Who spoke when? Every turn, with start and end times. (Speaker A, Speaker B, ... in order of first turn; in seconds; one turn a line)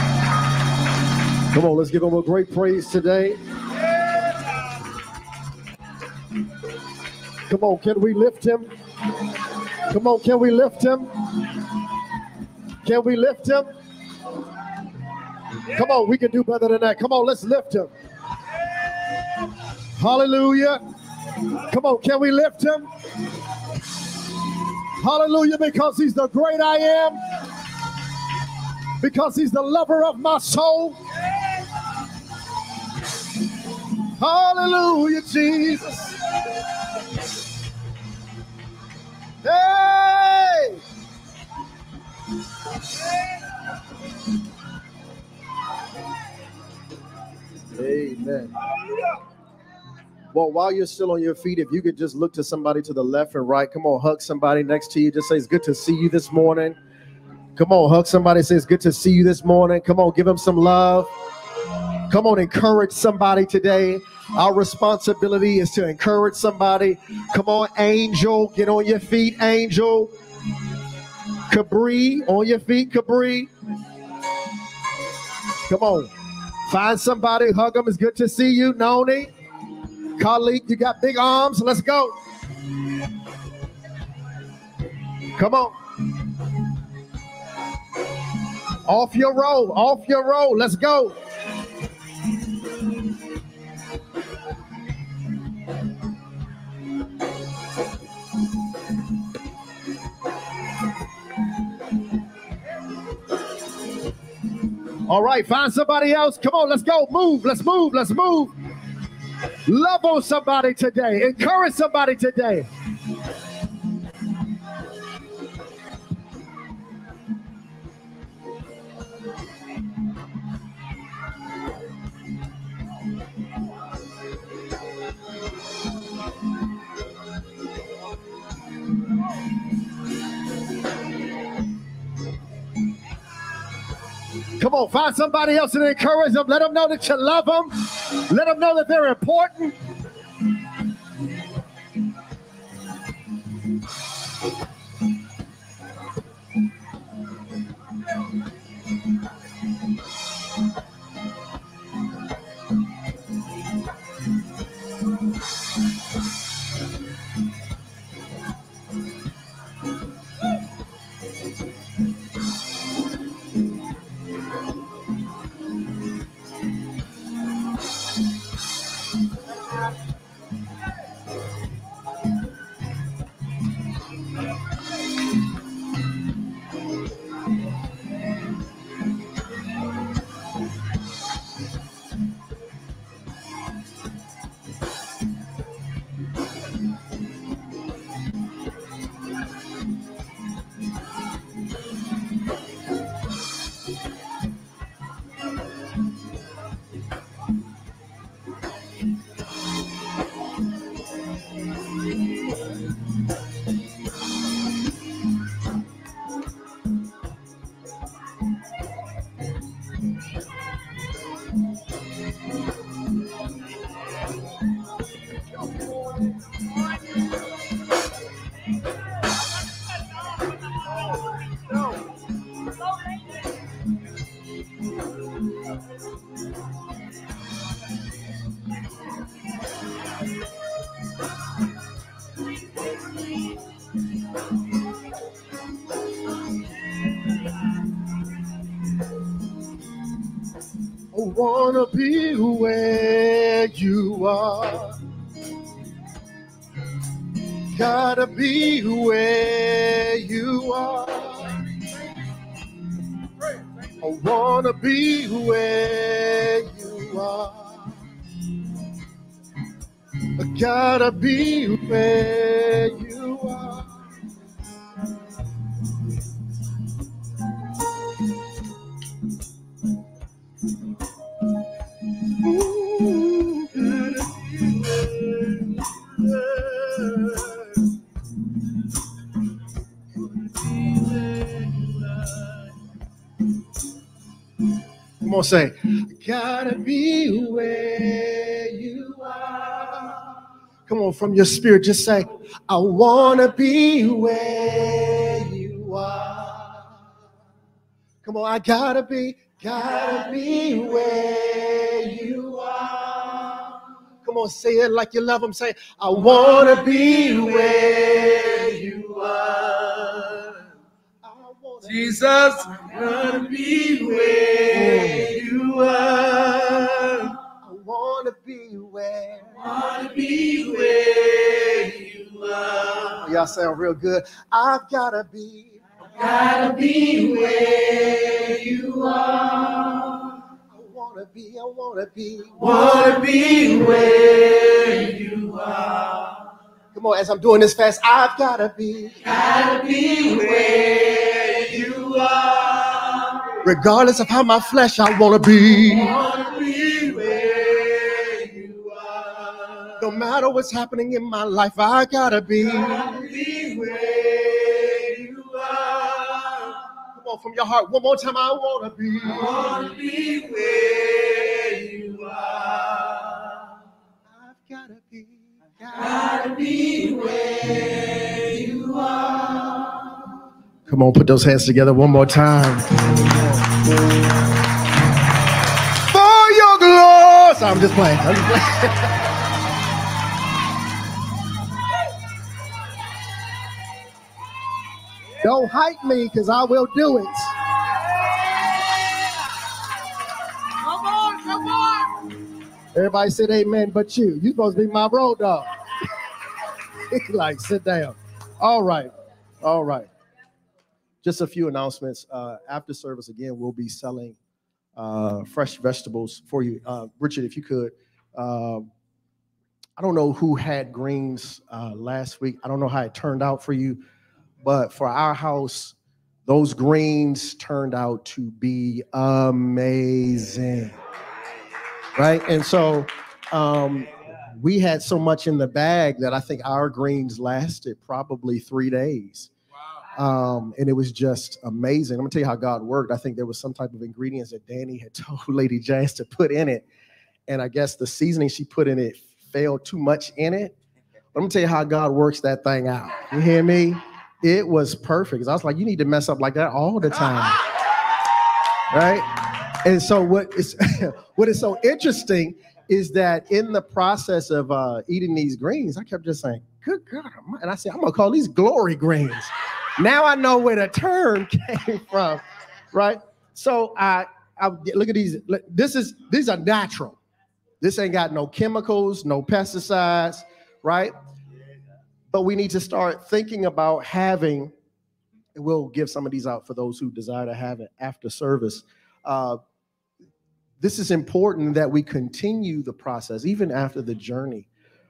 Speaker A: 1.5-3.4
Speaker A: 7.5-8.7
Speaker A: 9.7-11.5
Speaker A: 12.8-13.7
Speaker A: 15.6-17.9
Speaker A: 19.9-20.8
Speaker A: 21.5-22.9
Speaker A: 24.9-27.2
Speaker A: 29.0-31.0
Speaker A: 33.9-36.3
Speaker A: 39.4-40.8
Speaker A: 47.7-48.7
Speaker A: 50.3-56.8
Speaker A: 57.6-61.1
Speaker A: 62.1-70.1
Speaker A: 71.5-73.5
Speaker A: 75.6-76.1
Speaker A: 76.7-79.3
Speaker A: 80.2-82.2
Speaker A: 85.3-85.8
Speaker A: 88.8-91.2
Speaker A: 105.0-108.5
Speaker A: 109.7-112.7
Speaker A: 134.6-139.8
Speaker A: 241.1-245.0
Speaker A: 247.6-251.7
Speaker A: 253.9-258.1
Speaker A: 260.2-264.0
Speaker A: 272.4-277.8
Speaker A: 282.0-282.4
Speaker A: 285.2-290.3
Speaker A: 290.9-296.9
Speaker A: 298.2-303.6
Speaker A: 304.2-308.2
Speaker B: 306.4-310.7
Speaker A: 311.2-312.2
Speaker B: 311.8-317.4
Speaker A: 314.7-315.3
Speaker A: 317.6-319.6
Speaker B: 319.6-323.2
Speaker A: 323.2-325.8
Speaker B: 326.2-330.4
Speaker A: 330.7-332.8
Speaker B: 332.6-336.5
Speaker A: 336.9-339.2
Speaker B: 339.2-343.6
Speaker A: 343.6-346.2
Speaker B: 346.0-350.0
Speaker A: 350.0-353.1
Speaker B: 352.8-356.9
Speaker A: 357.1-359.5
Speaker B: 359.3-363.7
Speaker A: 364.3-366.2
Speaker B: 366.0-370.2
Speaker A: 370.9-373.2
Speaker A: 376.0-379.3
Speaker A: 385.4-387.7
Speaker B: 390.8-392.1
Speaker A: 392.9-396.1
Speaker A: 397.0-399.1
Speaker A: 399.6-400.1
Speaker A: 401.2-404.4
Speaker A: 405.0-408.9
Speaker A: 410.0-414.0
Speaker A: 414.6-421.0
Speaker A: 422.1-429.5
Speaker A: 430.1-436.9
Speaker A: 437.5-440.8
Speaker A: 441.3-447.7
Speaker A: 448.9-467.2
Speaker A: 467.8-471.1
Speaker A: 472.3-474.7
Speaker A: 475.6-479.6
Speaker A: 480.8-484.7